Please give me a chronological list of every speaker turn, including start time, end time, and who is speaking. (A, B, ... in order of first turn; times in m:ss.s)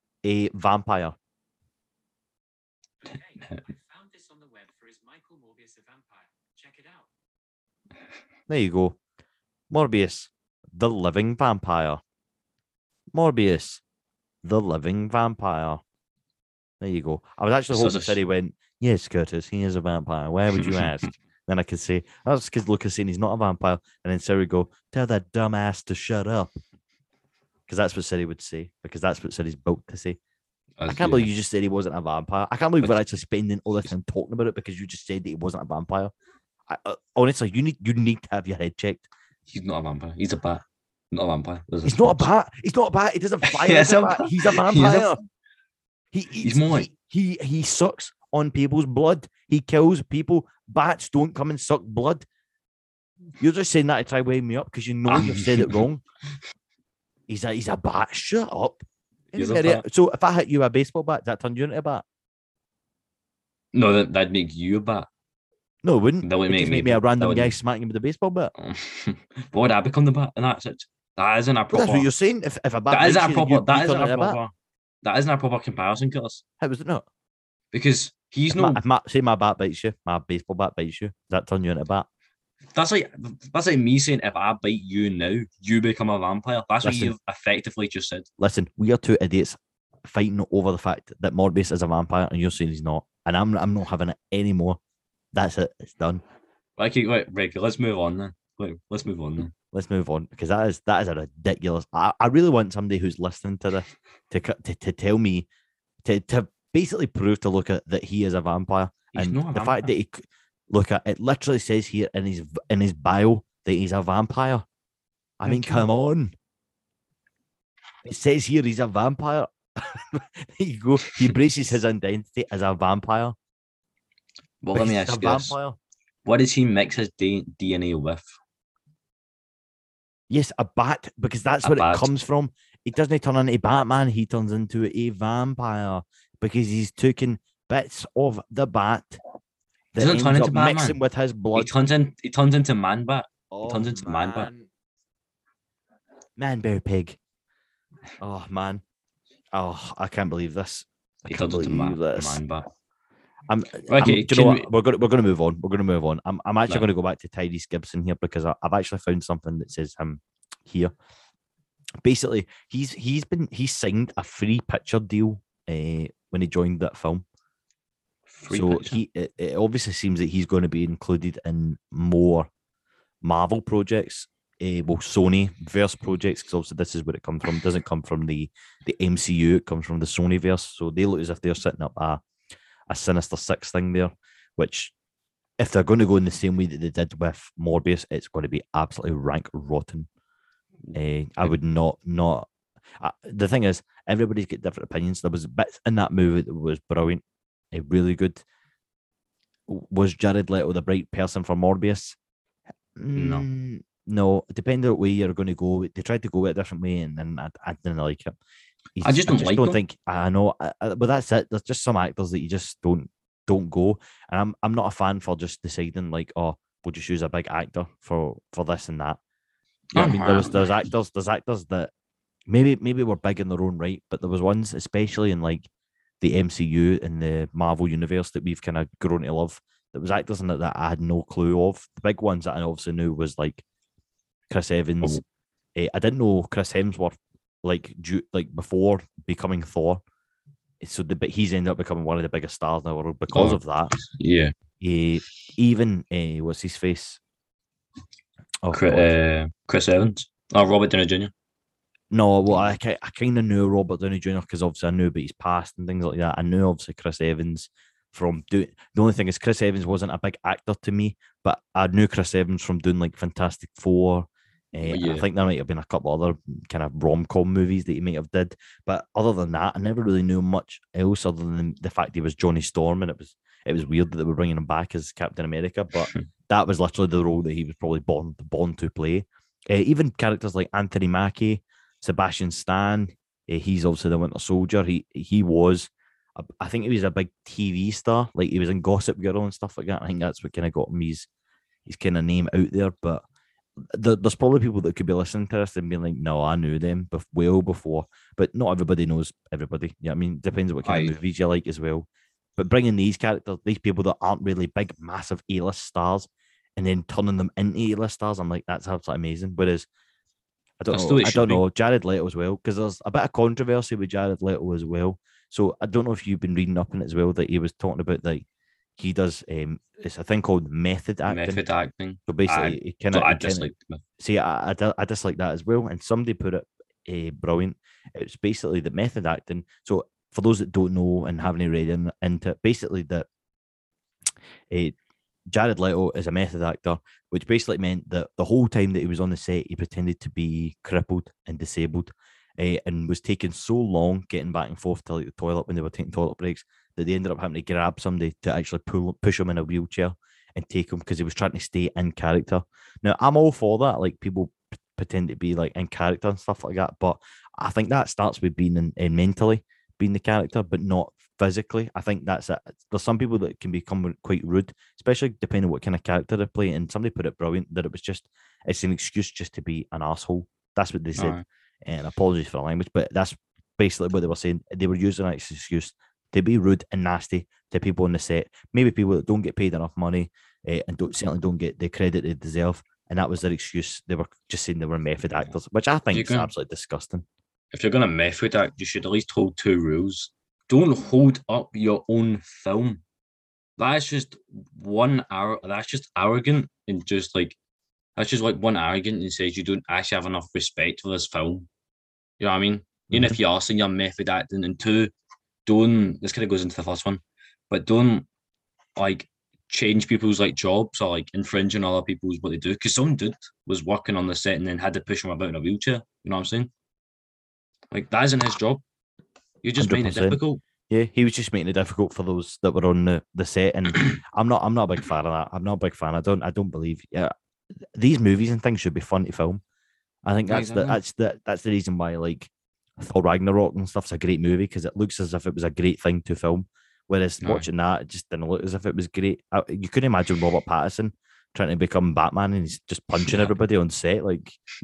0:00.2-0:01.1 A
0:03.0-0:07.1 B
0:08.5-0:09.0 A
0:09.7-0:12.0 A
0:13.1-0:13.8 A
0:14.4-0:15.8 A
0:16.8-0:26.6 A
0:17.7-0:18.2 C
0:20.5-0:21.1 C
0:27.7-0:30.2 A
0:30.8-0:31.3 C
0:30.9-0:36.1 A
0:36.7-0:39.0 A
0:39.5-0:42.3 C
0:41.8-0:45.2 A
0:43.4-0:45.2 C
0:46.1-0:52.2 A
0:46.4-0:46.9 C
0:53.4-0:56.0 A
0:55.1-0:55.8 C
0:57.3-1:02.0 A
0:59.3-0:59.8 C
1:03.7-1:05.1 C
1:05.8-1:08.5 A
1:06.2-1:07.5 C
1:08.6-1:12.1 C
1:11.7-1:14.4 A
1:12.9-1:16.4 C
1:16.6-1:17.0 A
1:17.7-1:18.8 C
1:18.5-1:22.1 A
1:22.7-1:28.3 C
1:26.8-1:27.1 A
1:28.4-1:34.8 A
1:35.3-1:36.2 A
1:36.8-1:39.5 C
1:39.7-1:45.5 A
1:46.0-1:54.6 A
1:49.1-1:49.9 C
1:55.4-1:56.3 A
1:55.4-1:55.9 C
1:58.0-2:03.4 A
2:04.6-2:05.5 C
2:04.7-2:05.8 A
2:06.2-2:08.3 C
2:10.3-2:19.2 A
2:11.6-2:12.1 C
2:19.9-2:21.7 A
2:20.0-2:21.0 C
2:21.5-2:24.5 C
2:23.5-2:24.7 A
2:26.4-2:27.2 A
2:28.2-2:28.8 A
2:29.5-2:32.4 A
2:31.3-2:32.6 C
2:33.5-2:40.9 A
2:33.9-2:34.7 C
2:42.0-2:47.2 A
2:48.3-2:49.0 C
2:48.5-2:52.5 A
2:53.2-3:02.2 A
3:02.9-3:04.9 A
3:05.6-3:10.1 A
3:10.9-3:12.5 A
3:13.0-3:18.4 A
3:19.7-3:22.2 A
3:23.0-3:28.4 A
3:23.1-3:23.4 C
3:29.0-3:39.2 A
3:29.0-3:29.8 C
3:39.9-3:40.6 C
3:39.9-3:41.9 A
3:42.5-3:45.6 A
3:46.2-3:53.6 A
3:54.5-3:55.2 A
3:55.8-4:00.0 A
4:00.8-4:04.0 A
4:03.3-4:04.5 C
4:04.8-4:07.2 A
4:08.6-4:09.1 A
4:08.7-4:11.3 C
4:12.1-4:51.3 A
4:24.8-4:25.2 C
4:51.8-4:53.2 A
4:53.9-5:09.9 A
5:00.8-5:01.1 C
5:10.8-5:18.4 A
5:10.9-5:11.6 C
5:19.0-5:21.6 A
5:21.3-5:24.0 C
5:22.3-5:33.3 A
5:35.5-6:27.2 A
6:11.2-6:11.4 C
6:26.1-6:26.5 C
6:27.7-6:33.0 C
6:33.8-6:37.6 C
6:38.2-6:41.7 C
6:42.4-6:45.1 C
6:43.1-6:43.4 A
6:45.6-6:48.3 C
6:49.0-6:56.7 C
6:57.9-6:58.8 C
6:59.6-7:00.6 C
6:59.8-7:07.3 A
7:08.0-7:09.6 A
7:10.2-7:24.6 A
7:10.5-7:11.0 C
7:17.4-7:17.7 C
7:23.2-7:23.5 C